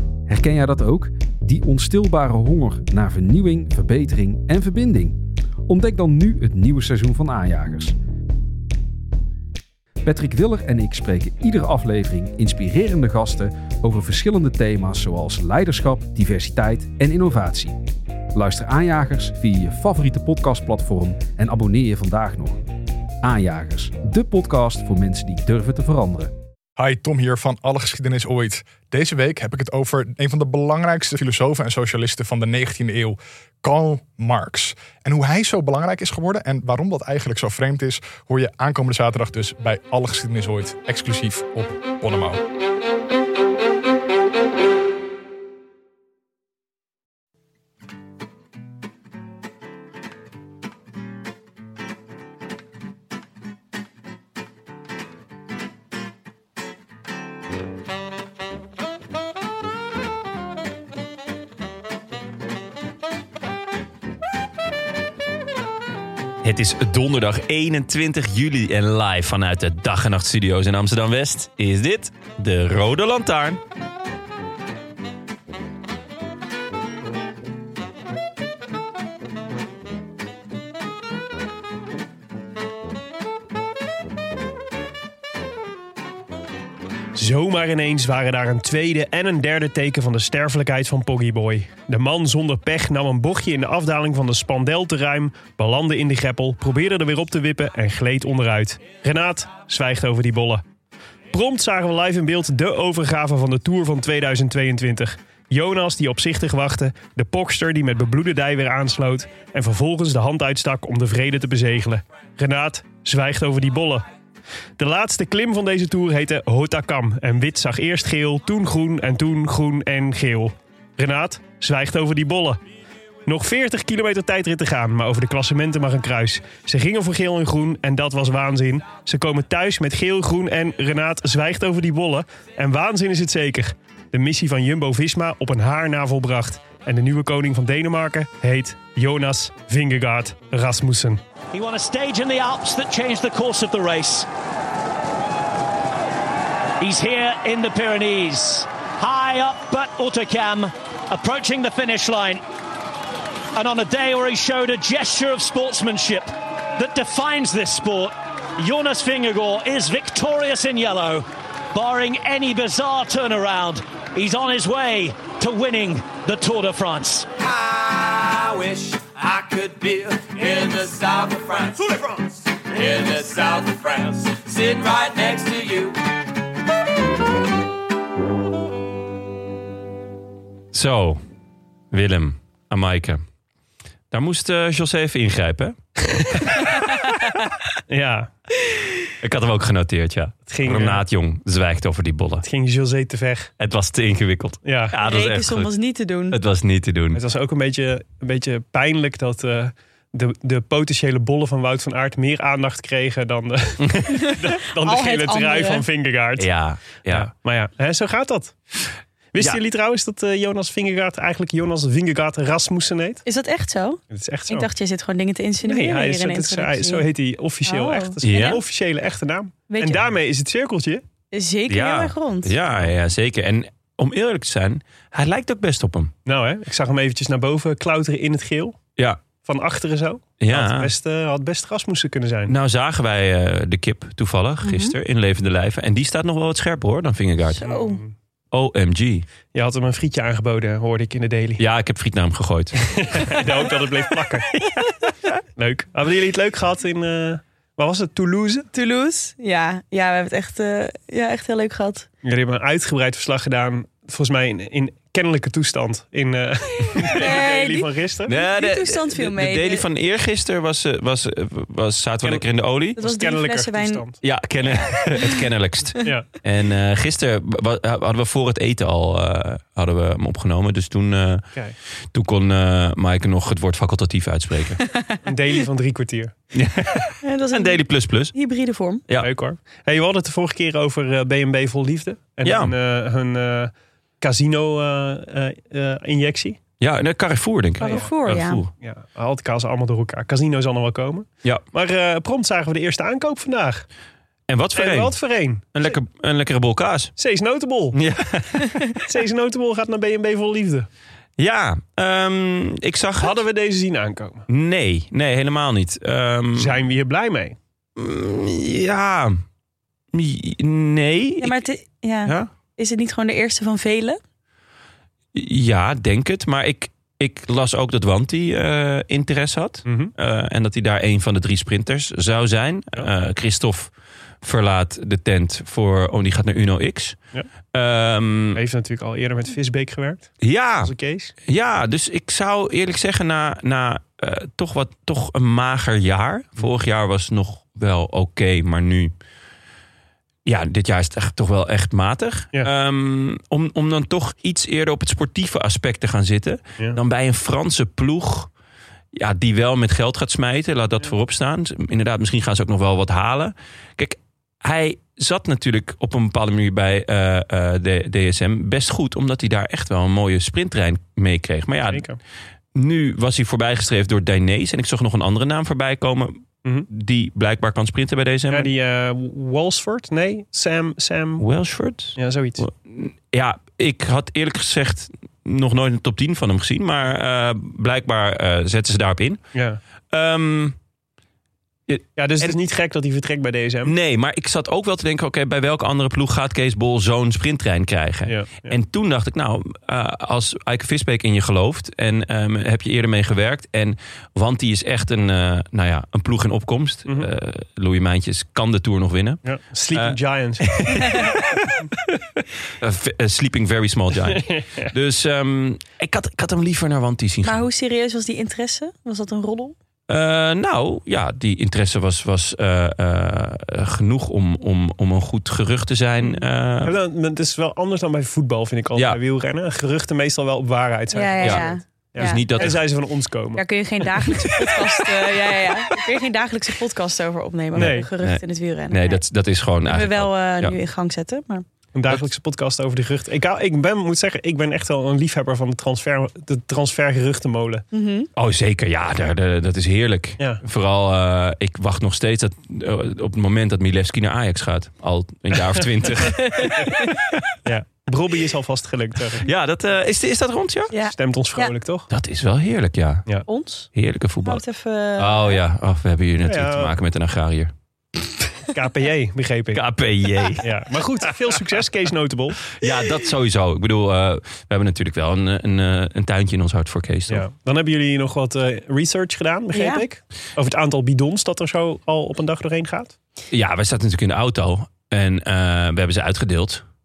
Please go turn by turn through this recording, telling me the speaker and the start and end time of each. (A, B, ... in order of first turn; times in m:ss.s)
0:00.3-0:08.0 A
0:10.0-0:17.8 A
0:18.3-0:22.6 A
0:23.2-0:26.3 A
0:26.8-0:42.4 B
1:06.4-1:13.6 C
1:27.2-1:40.6 D
1:41.3-1:54.0 D
1:54.8-2:02.6 D
2:03.3-2:21.2 D
2:21.5-2:24.3 E
2:26.8-2:32.4 E
2:33.5-2:47.3 E
2:47.6-2:48.6 C
2:48.0-2:53.1 F
2:49.5-2:50.1 C
2:52.8-2:53.8 C
2:53.7-2:55.9 F
2:54.4-2:55.9 C
3:00.7-3:01.2 C
3:01.9-3:03.2 C
3:04.1-3:06.6 C
3:07.9-3:08.3 D
3:09.2-3:12.4 C
3:10.5-3:11.0 D
3:12.4-3:13.5 D
3:13.6-3:15.7 C
3:14.6-3:15.0 D
3:15.0-3:16.4 G
3:16.3-3:17.2 C
3:17.1-3:26.5 D
3:23.8-3:24.2 C
3:24.2-3:25.8 G
3:26.4-3:27.3 C
3:27.0-3:28.6 D
3:29.3-3:33.2 D
3:33.2-3:37.1 G
3:34.1-3:34.7 D
3:35.6-3:41.0 D
3:37.6-3:38.6 G
3:38.2-3:38.6 C
3:39.7-3:40.0 G
3:41.3-3:42.6 G
3:41.7-3:46.1 C
3:46.3-3:48.8 D
3:49.4-3:52.6 D
3:50.4-3:50.9 C
3:52.5-3:57.7 C
3:54.6-3:55.0 G
3:57.6-3:58.0 G
3:57.6-3:58.1 D
3:58.5-3:59.3 C
3:59.5-4:01.6 D
4:01.6-4:03.4 C
4:03.0-4:04.5 D
4:05.6-4:08.7 D
4:08.7-4:12.1 G
4:12.2-4:18.4 D
4:17.0-4:19.8 G
4:18.3-4:23.0 C
4:23.0-4:24.0 G
4:23.0-4:24.2 D
4:24.2-4:31.5 C
4:26.0-4:26.3 D
4:32.1-4:34.8 C
4:34.9-4:35.2 G
4:35.2-4:36.3 D
4:36.5-4:38.4 C
4:37.2-4:39.0 G
4:39.2-4:46.6 D
4:42.4-4:42.7 C
4:46.8-4:48.7 C
4:47.8-4:48.6 G
4:47.9-4:48.1 D
4:48.8-4:53.9 D
4:54.5-4:55.1 C
4:54.8-4:56.0 D
4:55.7-4:57.2 C
4:57.2-4:58.0 D
4:57.9-4:59.0 C
4:59.0-5:00.9 D
5:01.4-5:03.4 C
5:03.2-5:04.5 D
5:04.5-5:06.8 C
5:06.6-5:07.6 D
5:08.0-5:09.4 C
5:10.1-5:11.6 C
5:11.4-5:14.2 G
5:12.2-5:12.5 C
5:15.3-5:23.9 C
5:19.9-5:20.1 D
5:24.4-5:27.2 C
5:27.7-5:28.6 C
5:28.6-5:31.3 D
5:30.4-5:31.0 C
5:31.5-5:39.1 C
5:40.5-5:48.5 C
5:49.2-6:02.0 C
6:01.9-6:02.2 D
6:02.8-6:08.7 C
6:08.5-6:11.4 D
6:11.4-6:19.4 C
6:12.2-6:12.6 D
6:19.5-6:19.8 D
6:20.1-6:20.8 C
6:21.9-6:22.6 C
6:22.2-6:23.9 D
6:23.8-6:41.9 C
6:28.3-6:28.8 D
6:39.4-6:41.3 D
6:42.8-6:47.7 C
6:44.2-6:44.9 D
6:47.4-6:49.8 G
6:50.1-6:56.9 C
6:56.8-7:05.6 D
7:01.1-7:02.8 G
7:01.4-7:02.8 C
7:03.6-7:09.2 G
7:04.4-7:04.7 C
7:07.8-7:08.1 D
7:08.2-7:10.8 C
7:09.9-7:11.6 G
7:11.9-7:17.8 D
7:17.9-7:18.3 G
7:18.4-7:27.6 C
7:26.3-7:27.2 G
7:27.6-7:29.5 D
7:29.4-7:30.9 C
7:30.9-7:31.7 G
7:31.0-7:32.1 D
7:32.1-7:33.4 C
7:33.5-7:33.9 G
7:33.9-7:34.6 C
7:34.4-7:35.6 G
7:35.2-7:37.7 C
7:36.4-7:36.9 D
7:38.7-7:39.8 D
7:39.7-7:40.8 C
7:40.6-7:42.7 D
7:42.7-7:47.4 C
7:47.3-7:53.2 D
7:49.7-7:50.0 G
7:53.5-7:56.8 C